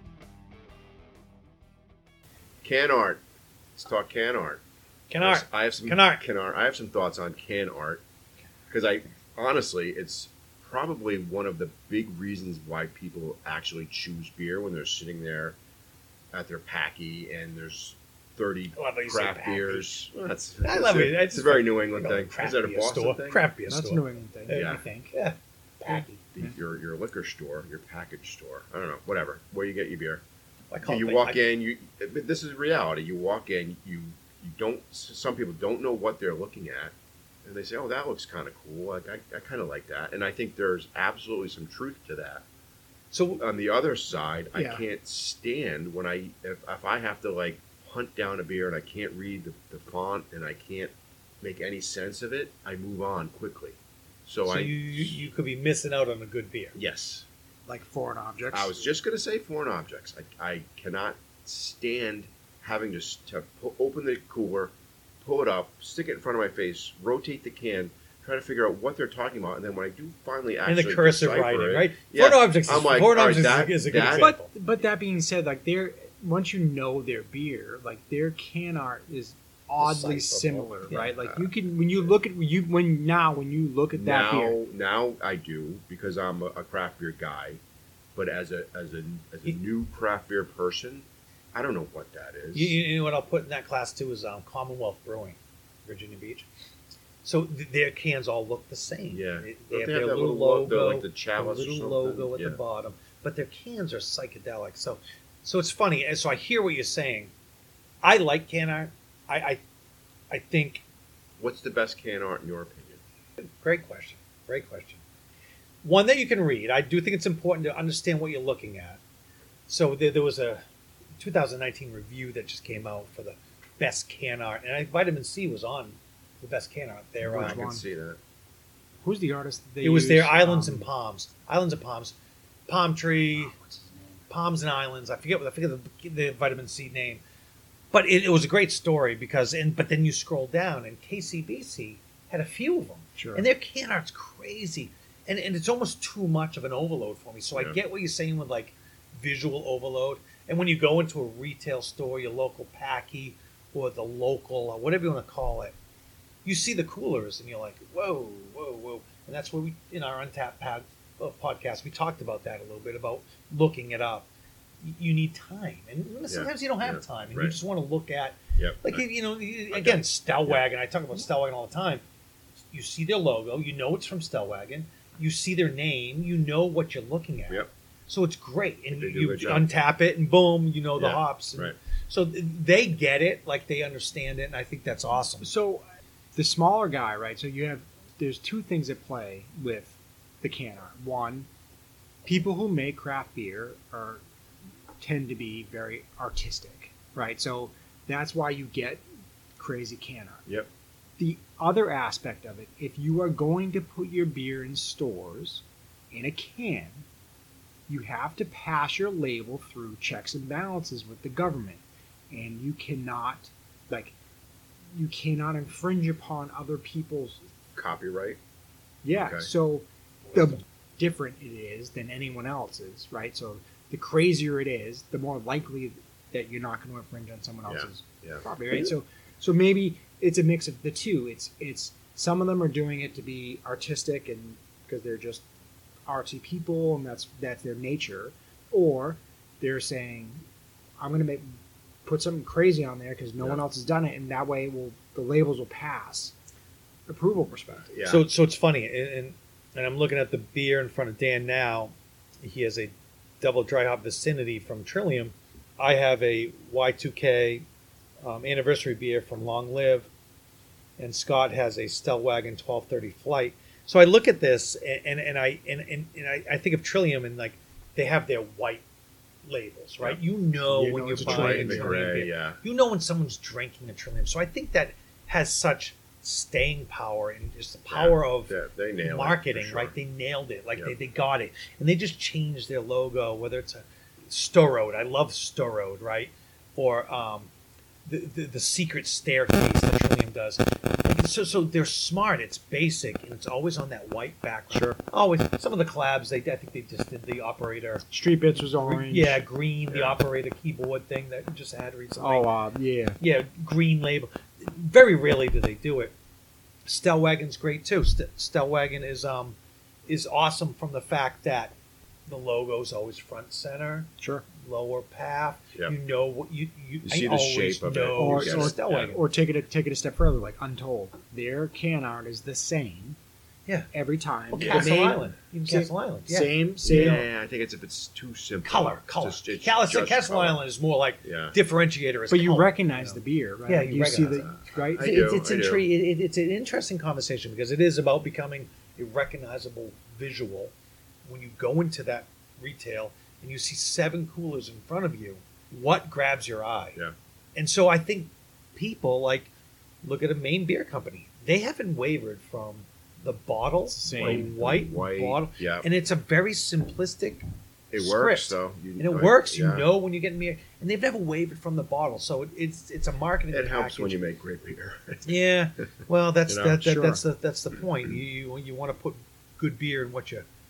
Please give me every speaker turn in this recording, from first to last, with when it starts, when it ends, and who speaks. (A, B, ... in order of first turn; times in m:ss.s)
0:02.6-0:03.2 A
0:03.8-0:04.6 A
0:05.1-0:06.2 B
0:05.2-0:08.0 A
0:08.7-0:15.6 A
0:16.3-0:23.4 A
0:18.8-0:20.0 B
0:20.6-0:26.2 B
0:23.7-0:25.1 C
0:24.5-0:24.8 A
0:26.3-0:30.2 A
0:30.7-0:31.4 B
0:30.9-0:36.9 A
0:37.4-0:42.4 A
0:43.1-0:43.4 B
0:43.4-0:55.2 A
0:44.5-0:44.8 C
0:54.4-0:56.8 B
0:56.8-0:57.3 A
0:57.7-0:58.8 C
0:58.5-1:14.3 A
1:10.7-1:14.5 B
1:14.1-1:24.6 C
1:19.8-1:21.1 B
1:20.9-1:22.1 A
1:23.9-1:27.6 A
1:28.2-1:32.8 A
1:32.5-1:36.5 B
1:37.2-1:47.3 B
1:39.1-1:42.6 A
1:48.0-1:49.6 B
1:50.3-1:50.8 B
1:51.4-1:53.0 A
1:53.6-1:55.0 B
1:55.8-1:59.0 B
1:59.7-2:00.6 B
2:01.2-2:07.6 B
2:07.2-2:07.8 C
2:07.3-2:08.2 A
2:09.0-2:10.9 C
2:09.8-2:12.2 B
2:12.7-2:13.6 B
2:13.4-2:14.2 C
2:14.3-2:17.2 B
2:17.9-2:35.8 B
2:23.2-2:23.5 C
2:36.4-2:44.3 B
2:44.8-2:52.0 B
2:46.3-2:47.6 A
2:48.6-2:49.0 A
2:49.7-2:50.6 A
2:52.7-3:05.5 B
2:58.9-2:59.7 A
3:01.0-3:01.8 A
3:05.4-3:05.8 C
3:06.4-3:11.5 C
3:12.2-3:14.2 C
3:15.0-3:19.0 C
3:19.6-3:20.4 C
3:21.2-3:27.1 C
3:27.9-3:34.2 C
3:34.9-3:37.4 C
3:37.8-3:38.4 A
3:39.0-3:55.4 C
3:39.1-3:39.5 A
3:47.7-3:48.4 A
3:48.7-3:48.9 B
3:56.1-4:00.4 C
4:01.0-4:01.5 C
4:02.0-4:06.3 C
4:07.1-4:07.9 C
4:07.9-4:08.3 A
4:08.0-4:17.6 B
4:18.2-4:20.1 B
4:21.0-4:28.8 B
4:29.4-4:47.5 B
4:30.7-4:32.2 C
4:31.2-4:32.6 A
4:37.9-4:40.0 A
4:48.1-4:58.0 B
4:54.7-4:55.0 C
4:58.1-4:59.4 C
4:58.8-5:02.5 B
4:59.9-5:00.2 A
5:02.2-5:03.2 C
5:03.2-5:06.1 B
5:06.8-5:11.8 B
5:12.3-5:19.2 B
5:14.2-5:14.5 C
5:17.0-5:19.2 A
5:18.2-5:23.2 C
5:23.9-5:27.3 C
5:24.5-5:27.3 B
5:24.6-5:24.9 A
5:26.8-5:30.6 A
5:28.6-5:40.7 B
5:31.2-5:31.6 A
5:32.3-5:35.4 C
5:34.4-5:35.9 A
5:41.2-5:47.0 B
5:47.6-5:49.5 B
5:50.0-5:57.4 B
5:53.9-5:54.5 C
5:54.1-5:55.9 A
5:57.9-5:59.9 A
5:58.0-6:04.2 B
6:03.5-6:05.4 A
6:05.3-6:10.5 B
6:06.5-6:06.9 A
6:06.8-6:07.2 C